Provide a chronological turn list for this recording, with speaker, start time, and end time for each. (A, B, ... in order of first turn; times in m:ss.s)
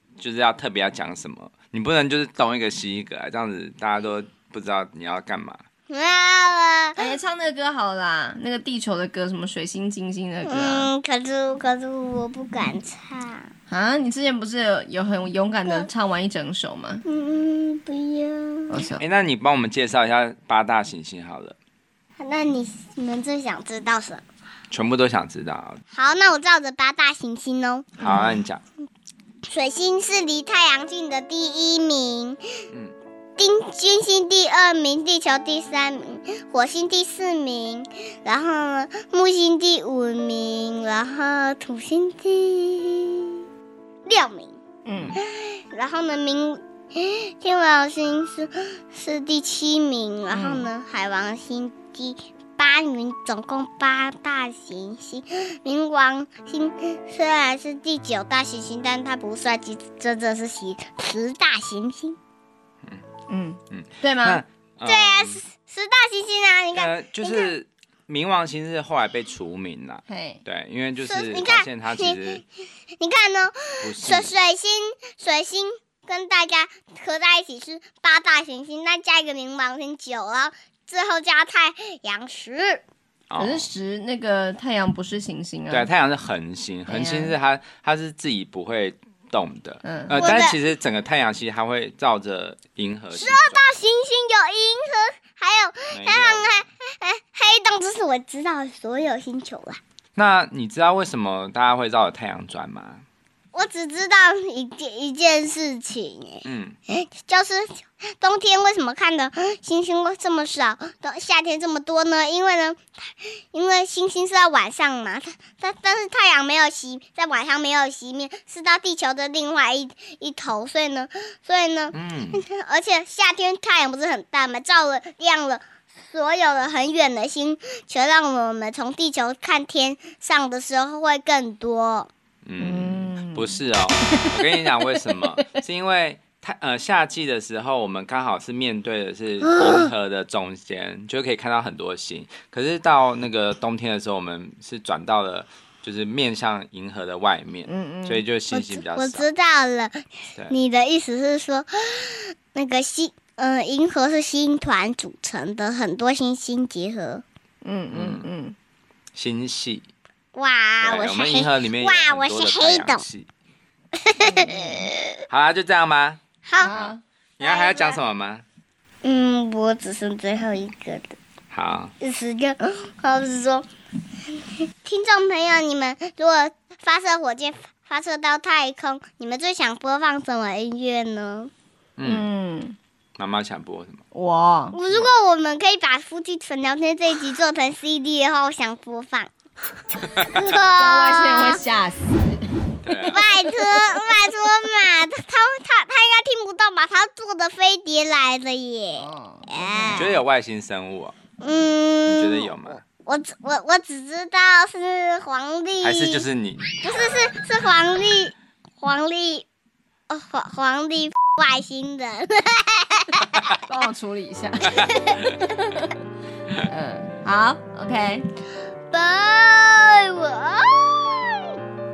0:00.2-0:05.6 A
0:05.9-0:07.1 B
0:07.0-0:10.9 C
0:10.4-0:13.5 B
0:13.7-0:17.0 C
0:17.0-0:18.9 B
0:18.7-0:19.0 C
0:19.0-0:21.6 A
0:22.2-0:24.2 B
0:24.7-0:25.8 A
0:25.9-0:28.0 B
0:28.0-0:28.4 C
0:28.0-0:28.6 A
0:29.5-0:32.4 B
0:33.4-0:43.4 B
0:44.1-0:44.6 B
0:44.9-0:45.2 C
0:45.2-1:02.2 B
0:50.3-0:50.7 C
1:03.3-1:04.4 C
1:03.7-1:05.4 A
1:04.8-1:07.5 B
1:06.7-1:12.4 A
1:10.1-1:10.4 C
1:11.0-1:12.4 B
1:13.0-1:22.8 B
1:13.8-1:14.3 A
1:23.3-1:23.7 A
1:23.4-1:25.9 C
1:25.7-1:33.6 A
1:26.9-1:27.3 C
1:29.8-1:30.3 C
1:30.2-1:30.6 B
1:33.1-1:39.8 B
1:35.9-1:36.7 A
1:40.2-1:43.0 A
1:43.5-2:12.1 B
1:46.4-1:46.8 A
2:01.9-2:02.4 A
2:12.4-2:29.3 A
2:12.6-2:15.6 C
2:27.7-2:28.2 C
2:28.5-2:37.2 B
2:37.6-2:38.6 C
2:37.9-2:38.3 A
2:39.1-2:39.9 A
2:40.4-2:43.0 B
2:40.8-2:43.3 A
2:44.0-2:45.2 B
2:44.4-2:44.7 C
2:45.3-2:48.4 A
2:46.4-2:46.8 B
2:46.6-2:47.0 C
2:47.4-2:48.0 B
2:49.0-2:51.2 B
2:51.5-2:51.9 A
2:52.0-2:53.7 B
2:54.8-3:01.5 B
3:02.0-3:02.3 A
3:02.0-3:02.8 C
3:03.2-3:04.0 A
3:04.1-3:04.8 C
3:04.7-3:09.3 B
3:10.0-3:11.6 B
3:10.6-3:14.1 C
3:12.8-3:13.2 A
3:13.1-3:20.1 B
3:19.0-3:20.2 C
3:19.9-3:21.1 A
3:21.4-3:26.2 B
3:22.1-3:22.8 A
3:25.8-3:26.6 A
3:26.8-3:29.4 B
3:30.1-3:33.6 B
3:33.6-3:36.0 C
3:34.8-3:35.3 B
3:36.6-3:38.3 C
3:38.9-3:41.5 B